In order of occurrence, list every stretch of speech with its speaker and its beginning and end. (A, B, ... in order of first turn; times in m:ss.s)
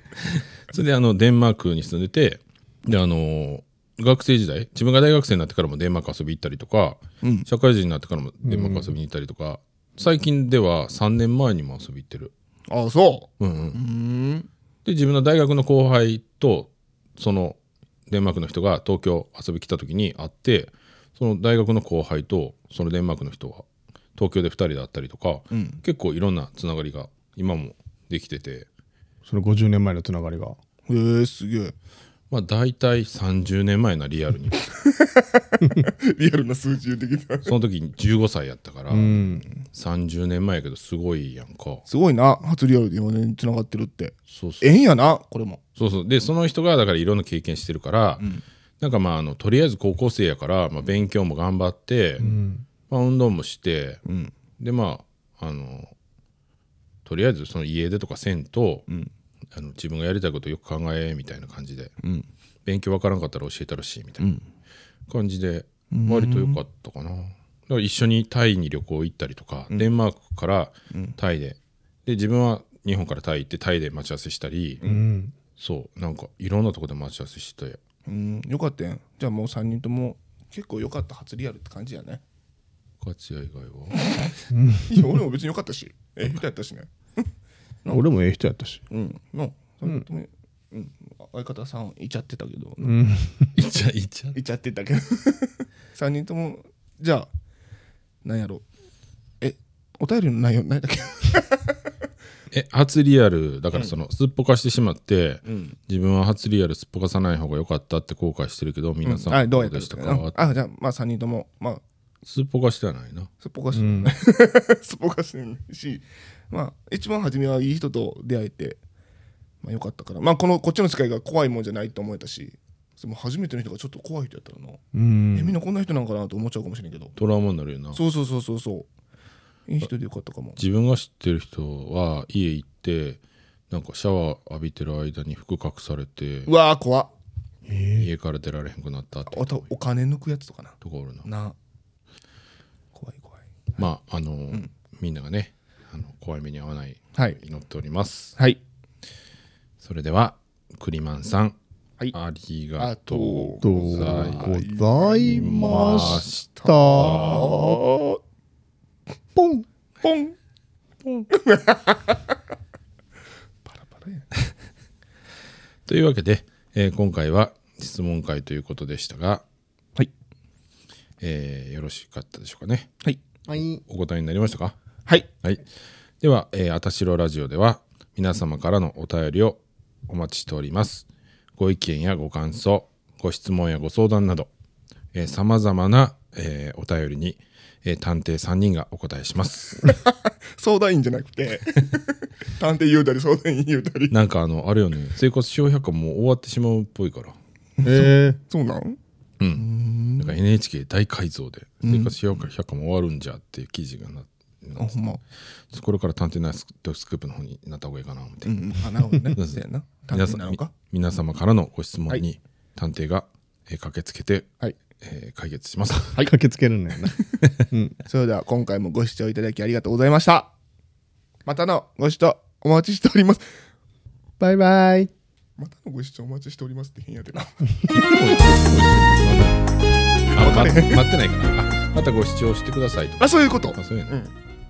0:00.4-0:12.3 A
0:07.2-0:07.5 B
0:08.4-0:08.9 C
0:12.7-0:14.5 B
0:13.4-0:13.8 A
0:14.8-0:28.7 A
0:25.5-0:25.8 B
0:29.3-0:30.6 C
0:30.9-0:31.8 B
0:32.3-0:34.6 A
0:34.7-0:37.5 B
0:37.5-0:41.8 A
0:38.9-0:39.5 C
0:41.9-0:45.6 B
0:44.3-0:44.6 A
0:45.8-0:48.3 A
0:48.8-0:52.3 A
0:52.2-0:52.6 C
0:52.9-0:54.0 A
0:54.1-0:54.3 B
0:54.6-0:55.9 A
0:57.0-0:58.8 A
0:59.5-1:01.9 A
1:02.0-1:02.3 B
1:02.6-1:04.3 A
1:04.2-1:04.4 B
1:05.1-1:14.8 A
1:05.9-1:06.6 B
1:14.8-1:15.4 C
1:15.6-1:17.8 A
1:18.1-1:22.2 B
1:23.0-1:24.0 A
1:24.5-1:25.1 C
1:24.9-1:26.9 B
1:27.9-1:28.8 C
1:28.9-1:33.0 B
1:32.8-1:33.5 C
1:33.6-1:34.4 A
1:34.4-1:37.3 B
1:38.2-1:38.6 B
1:39.4-1:41.8 B
1:42.5-1:50.4 A
1:45.5-1:45.8 B
1:49.0-1:51.8 B
1:52.2-1:53.3 A
1:53.4-1:58.8 B
1:53.8-1:54.1 C
1:59.6-2:04.8 B
2:04.9-2:05.6 C
2:05.3-2:07.2 B
2:07.2-2:08.0 A
2:08.0-2:08.9 B
2:09.7-2:10.6 B
2:10.6-2:16.5 A
2:16.5-2:17.1 B
2:17.7-2:18.1 C
2:18.0-2:19.6 A
2:19.3-2:21.6 B
2:20.8-2:21.3 A
2:22.9-2:23.9 B
2:23.8-2:28.4 A
2:29.8-2:31.6 A
2:32.1-2:34.5 A
2:32.8-2:38.2 B
2:33.6-2:37.8 C
2:35.2-2:37.5 A
2:39.4-2:39.6 C
2:40.0-2:40.4 B
2:41.0-2:42.2 B
2:43.7-2:44.3 B
2:45.9-2:49.4 A
2:51.2-2:52.9 A
2:53.5-2:53.8 C
2:53.9-2:54.8 A
2:56.2-3:04.5 A
3:05.1-3:09.9 A
3:09.8-3:14.2 B
3:14.1-3:17.4 A
3:17.8-3:19.0 B
3:17.8-3:18.4 C
3:19.4-3:25.0 A
3:19.5-3:20.4 B
3:21.8-3:22.2 B
3:24.8-3:25.2 B
3:25.7-3:28.7 A
3:28.4-3:30.7 B
3:29.4-3:29.6 A
3:30.1-3:36.2 A
3:36.2-3:38.0 C
3:38.1-3:40.5 B
3:41.5-3:43.5 B
3:44.4-3:45.1 C
3:45.6-3:47.6 B
3:47.9-3:49.6 A
3:50.3-3:54.1 A
3:50.4-3:51.0 B
3:53.2-3:54.3 B